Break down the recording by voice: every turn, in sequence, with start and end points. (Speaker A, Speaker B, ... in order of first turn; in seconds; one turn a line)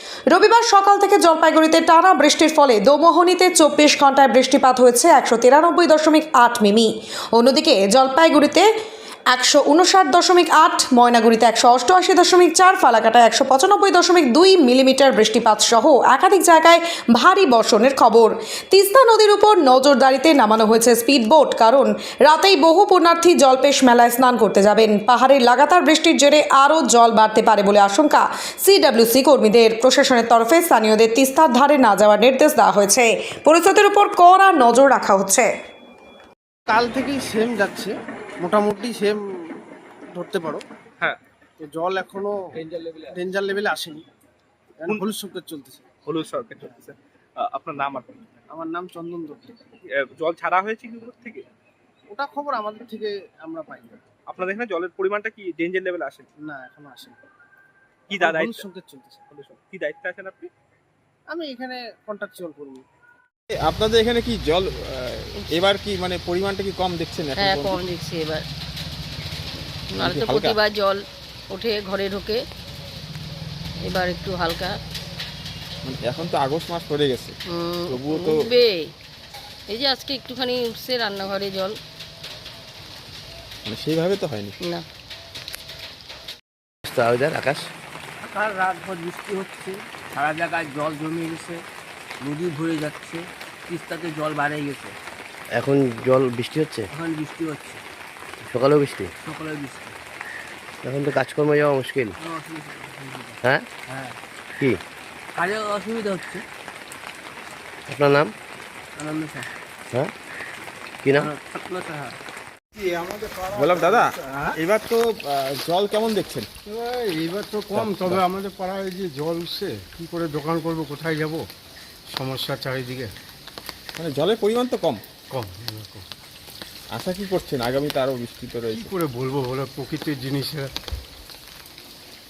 Speaker A: 0.3-8.7
Speaker A: 9.3-35.5
Speaker B: 36.7-39.5
Speaker B: 40.1-40.6
Speaker B: 41.6-42.3
Speaker B: 42.9-44.0
Speaker B: 44.8-45.9
Speaker C: 46.1-48.4
Speaker B: 48.5-49.5
Speaker C: 50.0-51.4
Speaker B: 52.1-54.0
Speaker C: 54.3-56.3
Speaker B: 56.4-57.2
Speaker C: 58.1-58.6
Speaker B: 58.1-59.2
Speaker C: 59.3-60.5
Speaker B: 61.3-62.8
Speaker D: 63.5-67.8
Speaker E: 67.4-68.5
Speaker E: 69.9-72.4
Speaker D: 70.0-70.6
Speaker E: 73.8-74.8
Speaker D: 75.8-77.4
Speaker E: 77.5-78.9
Speaker D: 77.9-78.5
Speaker E: 79.7-81.8
Speaker D: 83.7-84.6
Speaker F: 86.9-87.7
Speaker G: 88.2-91.6
Speaker G: 92.2-94.9
Speaker F: 95.5-96.9
Speaker G: 96.9-97.8
Speaker F: 98.4-99.1
Speaker G: 99.2-99.9
Speaker F: 100.8-102.2
Speaker G: 102.2-103.4
Speaker G: 103.9-104.2
Speaker G: 105.4-106.4
Speaker F: 107.9-108.3
Speaker G: 109.0-109.5
Speaker F: 111.0-111.3
Speaker G: 111.1-112.2
Speaker H: 112.9-113.4
Speaker D: 113.5-116.5
Speaker H: 116.7-121.5
Speaker D: 117.7-118.2
Speaker H: 122.1-123.1
Speaker D: 124.0-125.0
Speaker H: 125.3-126.0
Speaker D: 126.9-128.9
Speaker H: 128.8-130.7